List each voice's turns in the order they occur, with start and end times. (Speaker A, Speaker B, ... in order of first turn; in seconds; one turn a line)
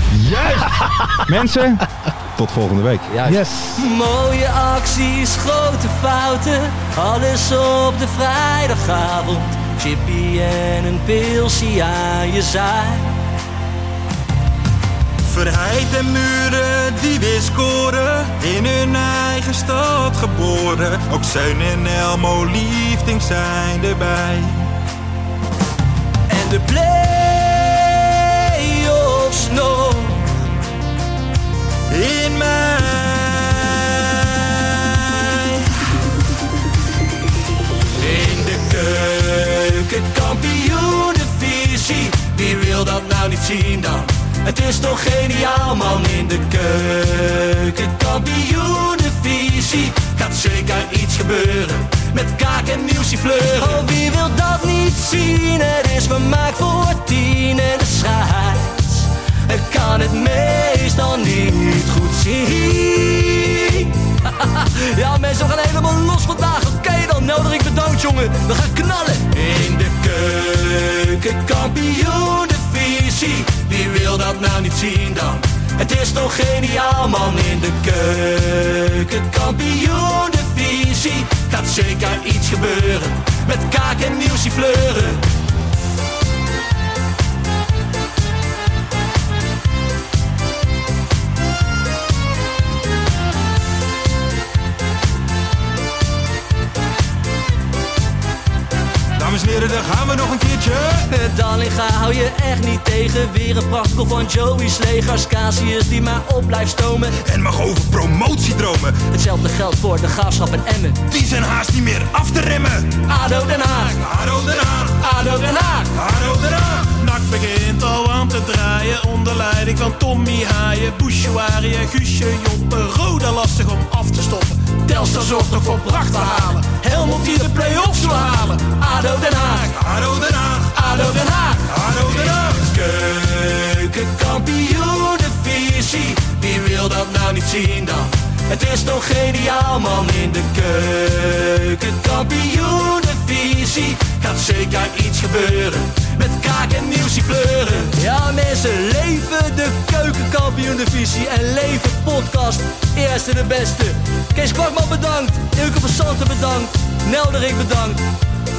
Speaker A: 0.1-3.1
Speaker B: 3.1-13.2
Speaker C: 3.2-3.8
Speaker A: 15.2-24.7
Speaker B: 26.3-30.4
Speaker A: 31.9-35.7
Speaker B: 38.0-85.3
Speaker A: 99.1-101.1
Speaker B: 101.1-107.2
Speaker A: 107.2-109.1
Speaker B: 109.1-111.0
Speaker A: 111.1-113.1
Speaker B: 113.1-114.0
Speaker A: 113.9-115.1
Speaker B: 115.1-115.9
Speaker A: 115.9-117.0
Speaker C: 116.9-128.5
Speaker B: 124.9-129.8
Speaker A: 129.8-130.7
Speaker B: 130.7-158.0
Speaker A: 131.7-132.7